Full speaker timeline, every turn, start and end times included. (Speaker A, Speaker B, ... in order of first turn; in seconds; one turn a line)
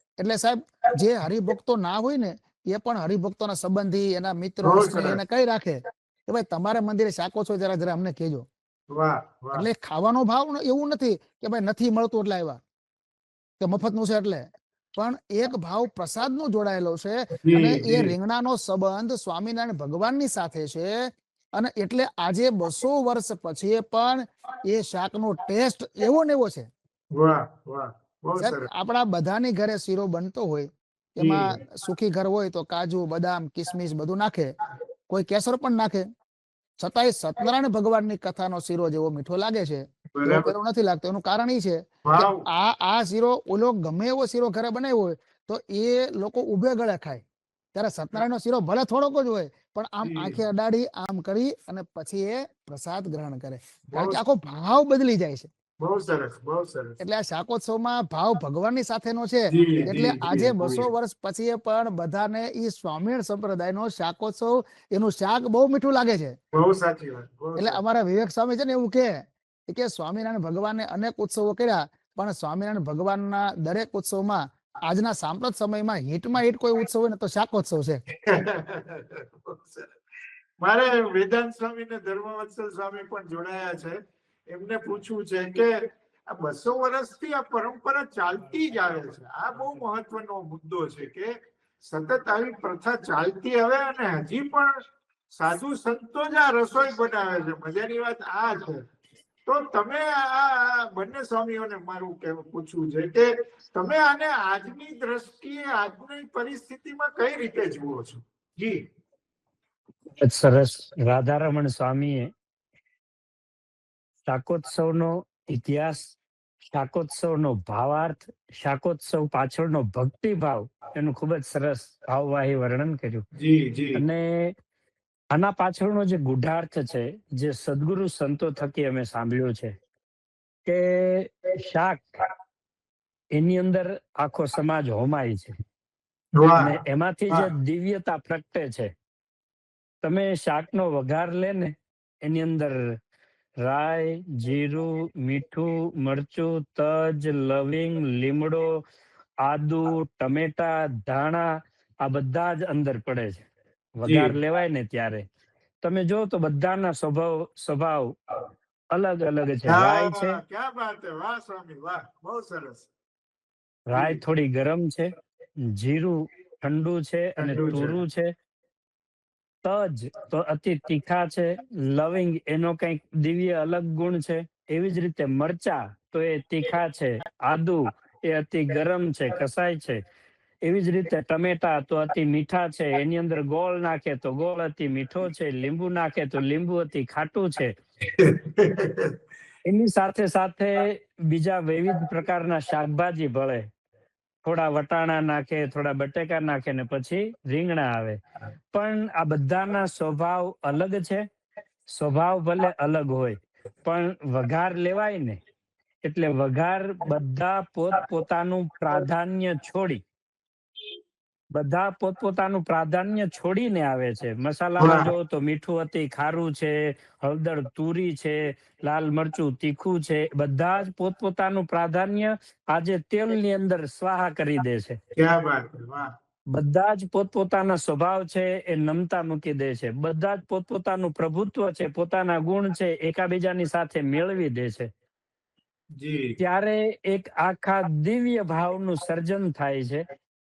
Speaker A: 0.2-8.5
Speaker B: 4.6-5.2
Speaker B: 8.9-9.7
Speaker A: 9.5-12.6
Speaker A: 13.6-26.7
Speaker B: 17.4-18.1
Speaker B: 27.1-28.7
Speaker A: 28.4-34.5
Speaker B: 31.2-31.6
Speaker A: 35.1-36.0
Speaker A: 36.8-47.2
Speaker B: 40.1-40.5
Speaker B: 42.0-42.5
Speaker A: 47.7-55.5
Speaker B: 50.0-50.4
Speaker B: 53.9-54.2
Speaker B: 55.8-57.0
Speaker A: 57.0-66.4
Speaker B: 59.5-60.9
Speaker B: 66.5-67.8
Speaker A: 67.6-78.0
Speaker B: 78.2-79.9
Speaker B: 80.6-84.0
Speaker B: 84.5-94.8
Speaker B: 95.3-98.8
Speaker B: 99.5-108.8
Speaker C: 110.2-112.3
Speaker C: 114.3-116.2
Speaker C: 116.7-123.2
Speaker B: 123.4-124.0
Speaker C: 123.9-124.5
Speaker C: 125.3-129.7
Speaker C: 130.7-132.0
Speaker C: 133.3-135.5
Speaker B: 136.3-136.8
Speaker C: 136.5-138.9
Speaker C: 140.0-142.8
Speaker C: 143.6-148.8
Speaker C: 149.4-153.4
Speaker C: 154.0-155.2
Speaker B: 154.0-154.3
Speaker C: 155.8-158.1
Speaker C: 158.9-160.4
Speaker B: 159.7-162.9
Speaker C: 163.9-165.1
Speaker B: 163.9-164.2
Speaker C: 165.6-168.3
Speaker B: 167.4-168.0
Speaker C: 169.6-180.0
Speaker C: 180.6-187.7
Speaker B: 188.1-189.2
Speaker C: 189.7-193.7
Speaker C: 194.4-198.2
Speaker C: 198.7-201.2
Speaker C: 201.9-205.4
Speaker C: 206.0-210.0
Speaker C: 211.5-225.0
Speaker B: 214.8-215.1
Speaker B: 225.2-226.1
Speaker C: 226.5-234.9
Speaker B: 236.0-236.4
Speaker C: 236.4-240.0